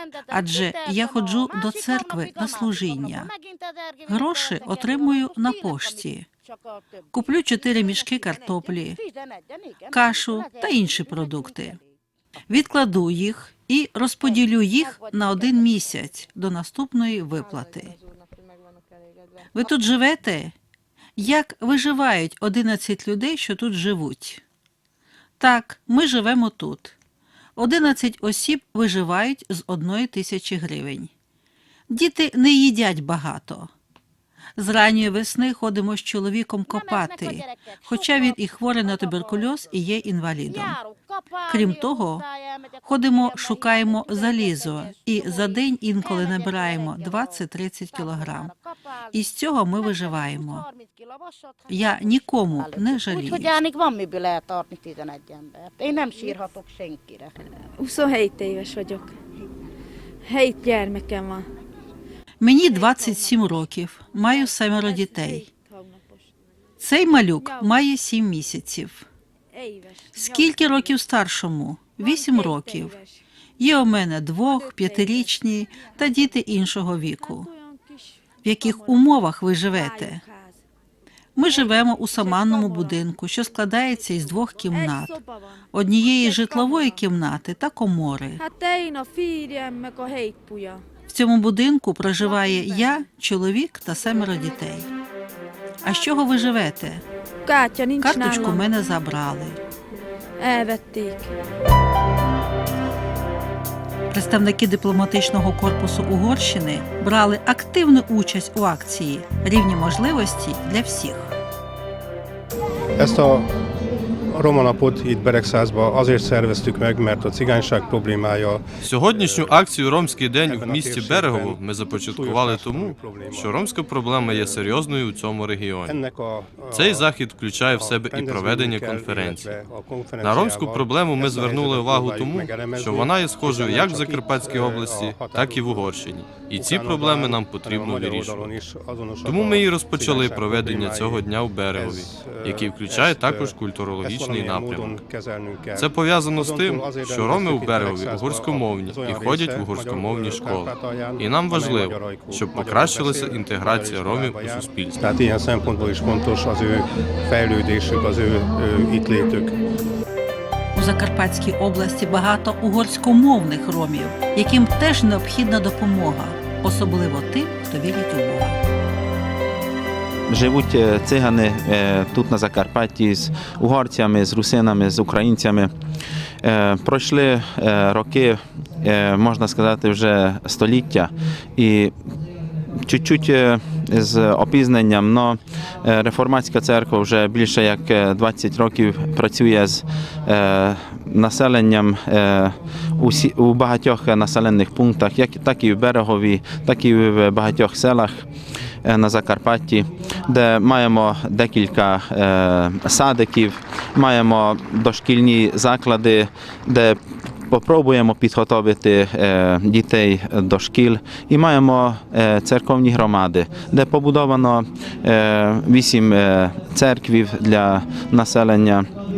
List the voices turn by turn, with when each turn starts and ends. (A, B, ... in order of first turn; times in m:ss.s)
0:00.2-0:03.4 A
0:00.3-0:03.3 B
0:04.1-0:06.2 B
0:04.2-0:05.8 A
0:07.1-0:09.0 B
0:08.5-0:11.2 A
0:09.9-0:11.8 B
0:12.5-0:17.9 B
0:19.5-0:20.5 B
0:21.2-0:24.4 B
0:25.4-0:27.0 B
0:27.6-0:31.1 B
0:31.9-0:33.7 B
0:34.6-0:40.8 B
0:37.0-0:37.5 A
0:40.6-0:41.7 A
0:41.5-0:42.2 B
0:42.8-0:48.5 B
0:43.4-0:45.3 A
0:48.2-0:48.6 A
0:49.1-0:50.6 B
0:50.5-0:51.2 A
0:51.7-0:53.6 B
0:52.6-0:57.3 A
0:57.8-0:59.1 C
1:00.2-1:01.4 C
1:02.4-1:05.5 B
1:02.6-1:03.6 C
1:04.1-1:06.3 C
1:06.8-1:09.0 B
1:07.4-1:07.8 C
1:09.5-1:10.9 C
1:10.1-1:13.0 B
1:12.0-1:13.2 C
1:13.6-1:17.5 B
1:14.5-1:15.3 C
1:17.2-1:19.1 C
1:18.4-1:20.2 B
1:19.7-1:20.6 C
1:21.4-1:25.2 B
1:21.5-1:23.0 C
1:24.7-1:27.0 C
1:25.7-1:28.4 B
1:28.4-1:30.8 C
1:31.1-1:34.9 B
1:32.2-1:33.0 C
1:35.8-1:36.5 C
1:35.8-1:37.0 B
1:37.4-1:38.7 C
1:38.0-1:39.6 B
1:40.4-1:41.3 C
1:44.1-1:51.3 B
1:53.0-1:53.5 D
1:54.3-1:59.7 D
1:58.8-2:06.0 E
2:00.4-2:03.6 D
2:04.2-2:04.7 D
2:05.8-2:07.2 D
2:06.7-2:09.6 E
2:07.7-2:39.6 D
2:10.2-2:18.5 E
2:19.2-2:25.0 E
2:25.8-2:35.2 E
2:40.7-2:48.6 B
2:50.3-2:55.7 F
2:56.4-3:01.9 F
3:02.8-3:18.2 F
3:18.8-3:27.0 F
3:27.5-3:38.9 F